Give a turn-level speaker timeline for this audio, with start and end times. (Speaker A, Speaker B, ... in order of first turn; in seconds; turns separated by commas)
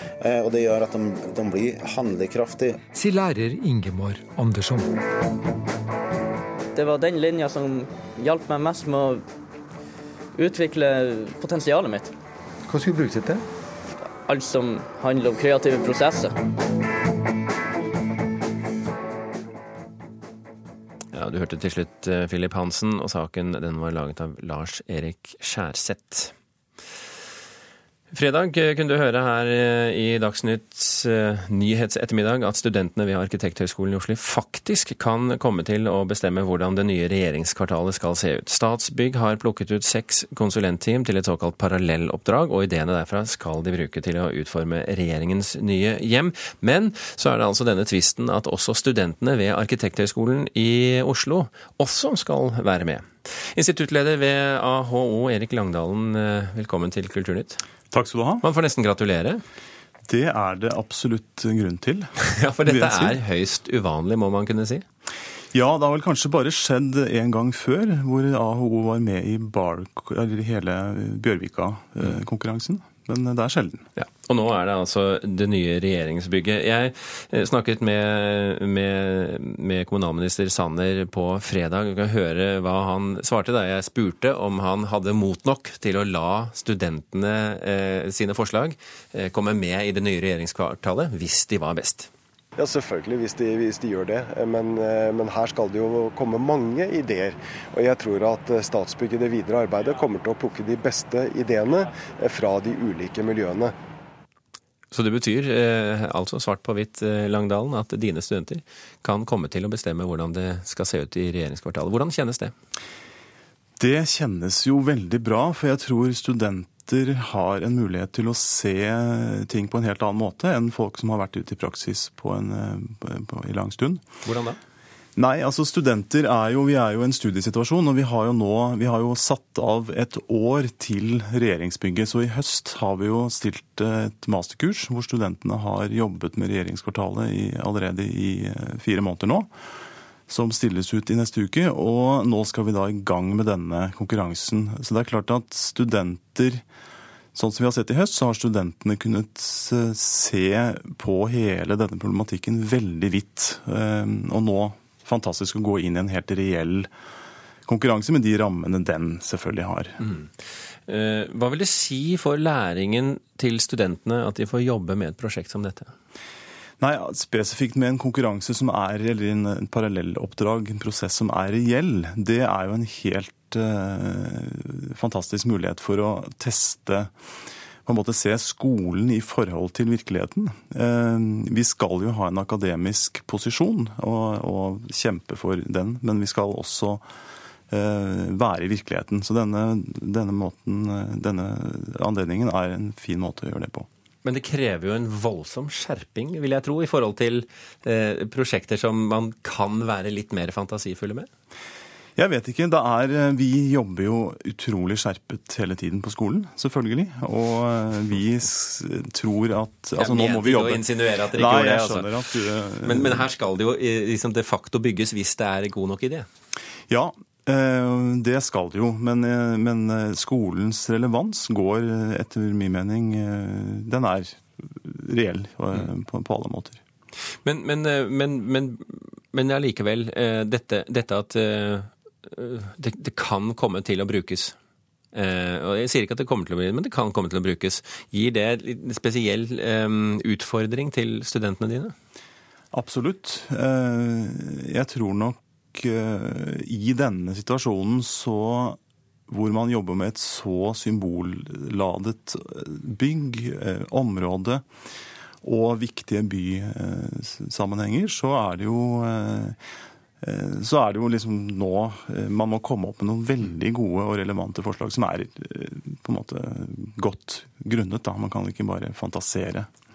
Speaker A: 0.2-2.8, Speaker B: 2.9-5.0, Speaker C: 6.7-9.2, Speaker C: 10.3-12.1, Speaker B: 12.7-13.4, Speaker C: 14.1-16.4, Speaker D: 21.1-26.3, Speaker D: 28.1-57.6, Speaker E: 57.9-58.4, Speaker D: 58.4-59.4, Speaker E: 60.1-62.1, Speaker D: 62.2-64.8, Speaker E: 62.6-63.2, Speaker E: 65.5-73.9, Speaker D: 74.0-92.1, Speaker F: 92.6-103.7, Speaker D: 104.9-112.5, Speaker E: 113.8-124.0, Speaker D: 124.2-124.6, Speaker E: 125.2-139.5, Speaker E: 140.3-146.6, Speaker E: 147.3-156.9, Speaker E: 157.7-160.0, Speaker D: 160.0-160.3, Speaker D: 160.9-165.9, Speaker E: 166.8-177.1, Speaker E: 177.9-187.0, Speaker E: 187.7-193.9, Speaker D: 194.2-201.3, Speaker E: 202.2-213.3, Speaker D: 210.0-212.1, Speaker D: 212.8-216.3, Speaker E: 216.9-226.8, Speaker D: 227.4-234.6, Speaker D: 235.1-241.9, Speaker E: 242.7-254.6, Speaker E: 255.4-259.6, Speaker E: 260.2-269.7